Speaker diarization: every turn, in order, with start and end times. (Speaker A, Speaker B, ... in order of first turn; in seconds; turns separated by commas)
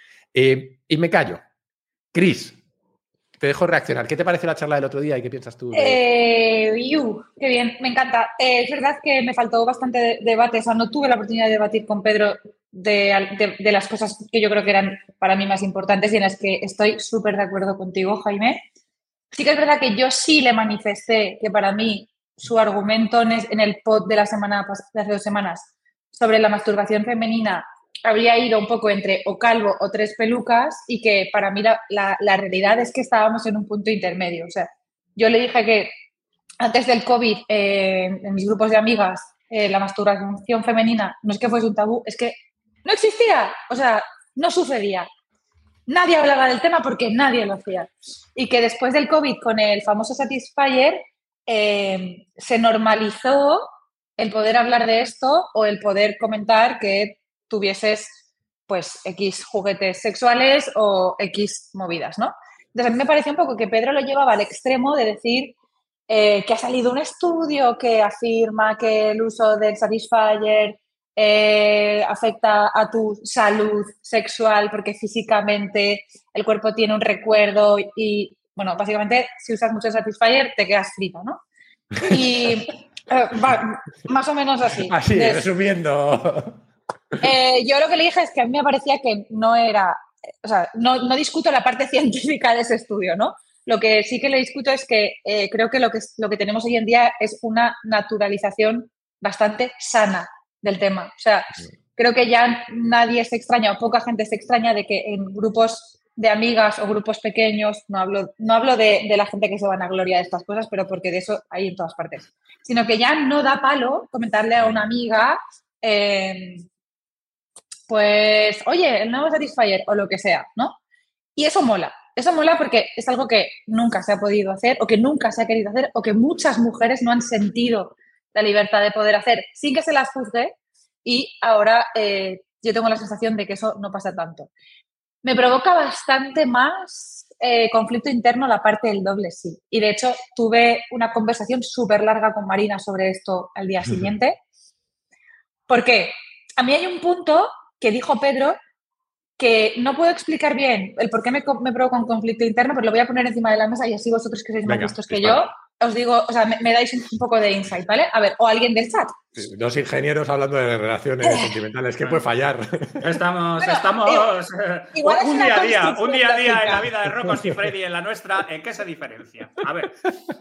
Speaker A: 0.3-1.4, Speaker A: 2.1-2.6, Speaker A: 3.4-6.0, Speaker B: 5.7-18.6, Speaker B: 19.3-35.9, Speaker B: 36.6-45.1, Speaker B: 45.9-58.2, Speaker B: 58.7-65.5, Speaker B: 66.1-81.4, Speaker B: 82.0-85.5, Speaker A: 84.9-86.6, Speaker B: 87.2-116.7, Speaker B: 117.9-120.8, Speaker B: 121.4-134.5, Speaker B: 135.2-144.4, Speaker B: 145.7-148.6, Speaker B: 149.4-159.2, Speaker A: 154.7-155.5, Speaker A: 159.4-163.2, Speaker C: 163.0-170.0, Speaker B: 163.6-164.3, Speaker B: 164.9-166.8, Speaker A: 167.2-167.7